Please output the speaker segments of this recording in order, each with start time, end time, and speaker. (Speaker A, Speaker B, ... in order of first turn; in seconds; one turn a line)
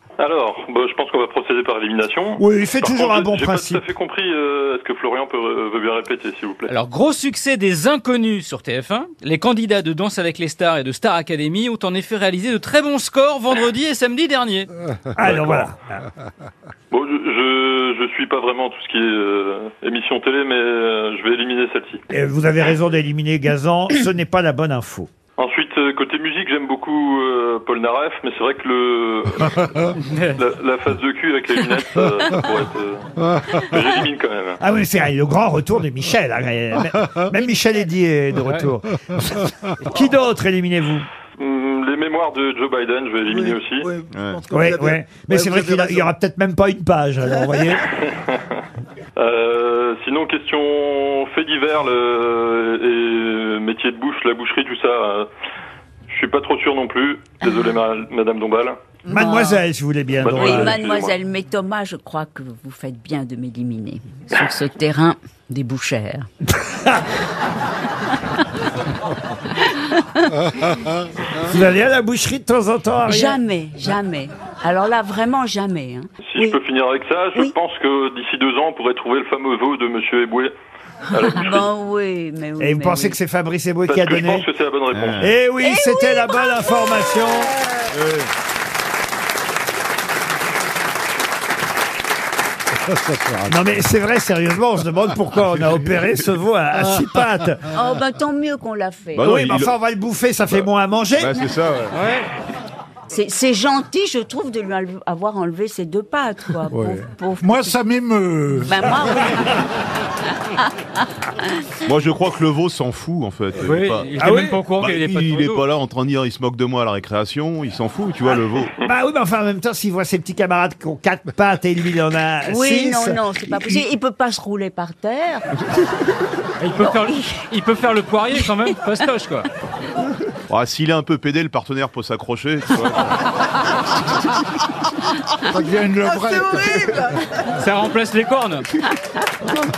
Speaker A: 0.2-6.7
Speaker B: 2.4-3.8
Speaker C: 6.7-14.7
Speaker B: 15.2-16.0
Speaker A: 15.2-15.7
Speaker A: 16.9-22.0
Speaker B: 22.1-25.1
Speaker A: 25.4-34.6
Speaker B: 34.6-39.2
Speaker B: 39.8-41.1
Speaker A: 41.4-43.9
Speaker D: 43.3-46.1
Speaker E: 44.1-44.4
Speaker B: 44.5-47.8
Speaker A: 48.1-48.4
Speaker A: 49.2-55.3
Speaker A: 56.1-58.8
Speaker F: 59.1-59.6
Speaker B: 59.1-60.8
Speaker A: 60.2-61.1
Speaker F: 60.2-66.3
Speaker B: 66.6-67.1
Speaker F: 69.7-70.2
Speaker B: 71.3-73.4
Speaker F: 73.0-76.6
Speaker A: 76.3-80.5
Speaker A: 81.1-81.7
Speaker F: 81.2-83.2
Speaker B: 82.6-84.5
Speaker A: 83.9-85.3
Speaker E: 84.9-85.3
Speaker B: 85.2-87.5
Speaker F: 85.6-86.4
Speaker E: 87.9-88.3
Speaker G: 92.8-93.7
Speaker B: 93.5-97.7
Speaker G: 96.8-97.0
Speaker F: 97.7-99.3
Speaker E: 99.2-99.7
Speaker B: 99.2-101.3
Speaker E: 100.5-102.0
Speaker C: 101.9-102.3
Speaker F: 103.1-107.8
Speaker G: 106.7-109.0
Speaker F: 108.6-109.7
Speaker E: 111.8-114.1
Speaker C: 113.6-115.6
Speaker B: 114.2-114.6
Speaker E: 114.7-118.8
Speaker B: 118.4-123.2
Speaker F: 122.5-125.5
Speaker C: 126.6-129.5
Speaker E: 130.5-133.2
Speaker G: 135.4-136.8
Speaker D: 136.0-137.6
Speaker C: 137.6-138.7